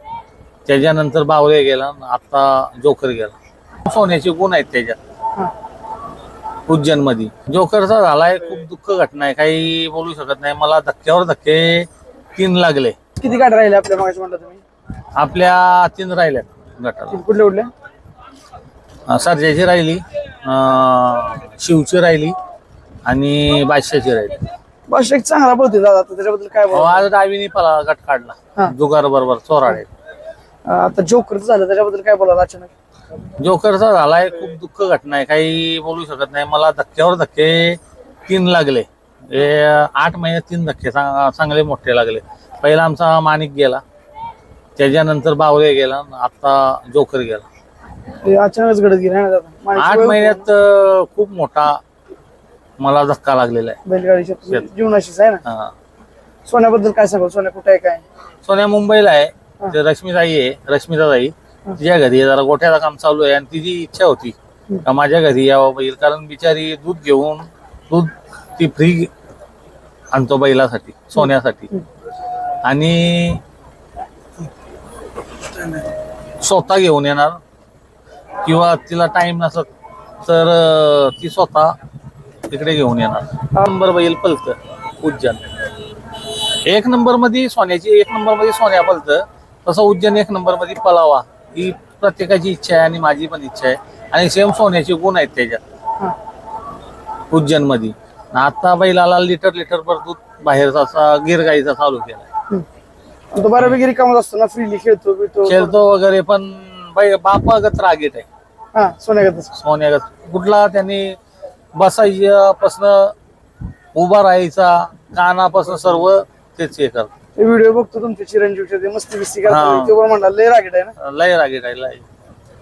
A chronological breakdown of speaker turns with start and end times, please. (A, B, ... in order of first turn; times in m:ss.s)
0:00.6-0:05.0 A
0:06.7-0:13.0 A
0:13.2-0:14.6 B
0:15.2-0:17.2 A
0:17.1-0:17.7 B
0:19.1-0:22.4 A
0:23.0-0:24.4 A
0:24.9-0:27.1 B
0:26.7-0:29.9 A
0:30.6-0:32.7 B
0:33.4-0:43.8 A
0:44.8-0:47.5 A
0:48.2-0:50.5 B
0:49.8-0:51.8 A
0:52.8-0:53.8 A
0:53.8-0:55.4 B
0:55.4-0:55.7 A
0:56.4-0:58.0 B
0:58.4-1:09.1 A
1:10.1-1:11.7 A
1:12.6-1:13.4 A
1:16.4-1:17.4 A
1:18.4-1:19.7 A
1:20.2-1:21.7 A
1:22.5-1:25.4 A
1:26.4-1:35.6 A
1:37.3-1:42.3 A
1:43.3-1:45.8 B
1:45.4-1:48.3 A
1:48.7-1:49.5 B
1:49.5-1:51.2 A
1:51.7-1:53.1 A
1:53.9-1:57.1 A
1:57.4-2:00.9 B
1:59.5-1:59.9 A
2:01.0-2:02.0 A